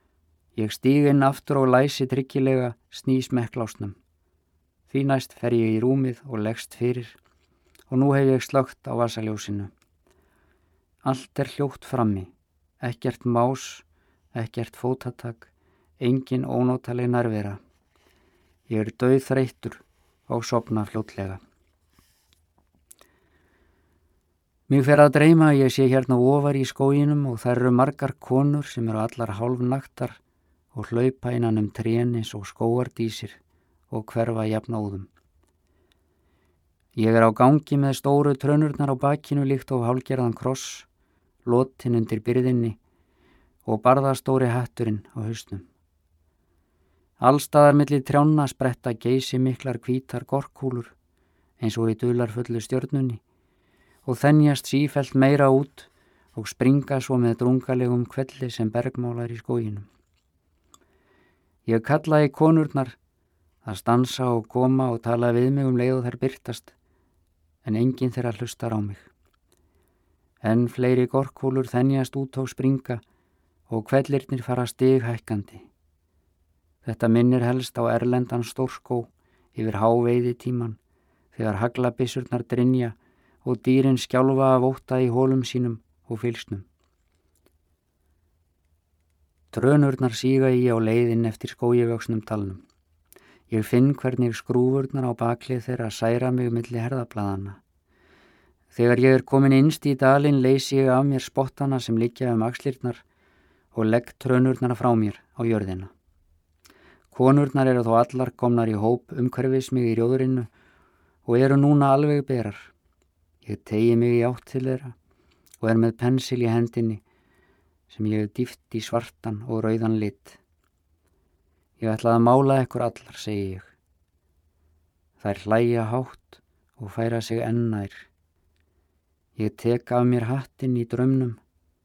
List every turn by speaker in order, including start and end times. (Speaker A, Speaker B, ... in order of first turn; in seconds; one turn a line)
Speaker A: 0.6-4.0
Speaker A: 4.9-7.2
Speaker A: 7.9-9.7
Speaker A: 11.0-12.3
Speaker A: 12.8-13.8
Speaker A: 14.3-17.6
Speaker A: 18.7-21.4
Speaker A: 24.7-30.2
Speaker A: 30.7-33.4
Speaker A: 33.9-35.1
Speaker A: 37.0-40.9
Speaker A: 41.4-42.8
Speaker A: 43.6-45.6
Speaker A: 47.2-50.9
Speaker A: 51.6-53.2
Speaker A: 54.0-59.9
Speaker A: 61.6-63.0
Speaker A: 63.6-66.7
Speaker A: 67.6-69.1
Speaker A: 70.4-73.0
Speaker A: 73.7-75.7
Speaker A: 76.8-80.8
Speaker A: 81.3-86.7
Speaker A: 89.5-92.6
Speaker A: 93.5-97.6
Speaker A: 98.7-103.0
Speaker A: 103.7-105.9
Speaker A: 107.1-110.5
Speaker A: 111.2-112.7
Speaker A: 113.4-115.0
Speaker A: 115.6-117.0
Speaker A: 117.9-120.4
Speaker A: 121.8-123.7
Speaker A: 125.2-128.1
Speaker A: 129.3-131.4